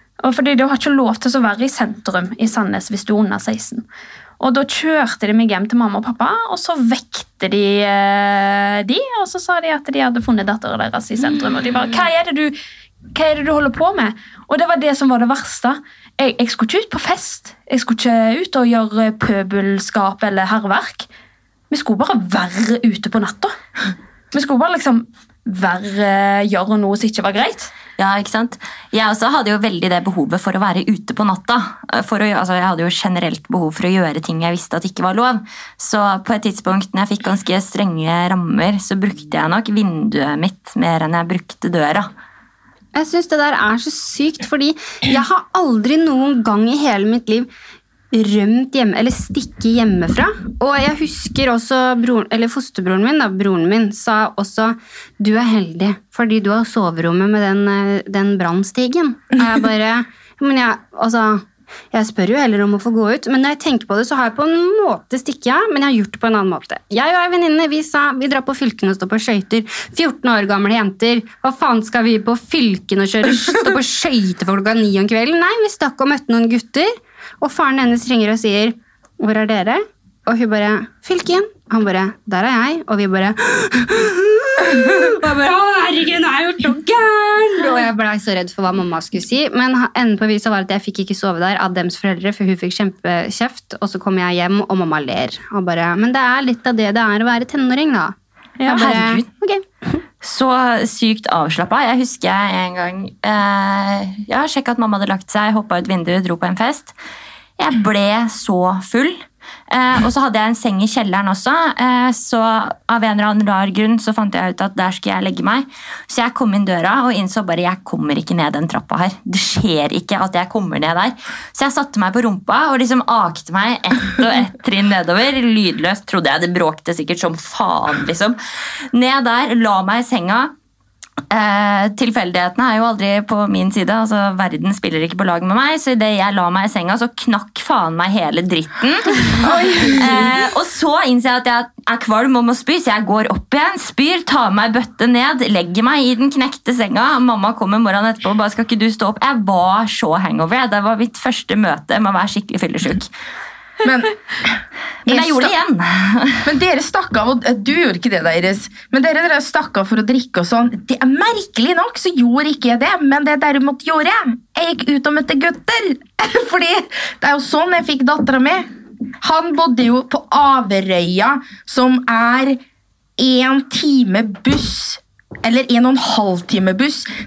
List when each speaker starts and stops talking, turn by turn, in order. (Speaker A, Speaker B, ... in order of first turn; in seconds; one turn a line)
Speaker A: 0.2-3.8
Speaker A: 4.4-12.5
Speaker B: 11.3-12.0
Speaker A: 13.1-21.1
Speaker A: 21.7-23.5
Speaker A: 24.3-27.7
Speaker C: 28.0-42.1
Speaker B: 42.9-47.5
Speaker B: 48.1-98.2
Speaker C: 98.7-99.2
Speaker B: 98.7-100.0
Speaker C: 100.2-106.9
Speaker C: 107.6-128.4
Speaker C: 128.9-130.5
Speaker C: 131.3-153.1
Speaker A: 139.4-140.1
Speaker D: 139.4-140.1
Speaker D: 153.8-154.6
Speaker C: 155.1-156.4
Speaker D: 155.1-155.5
Speaker D: 156.4-168.7
Speaker D: 169.2-172.6
Speaker D: 173.2-177.1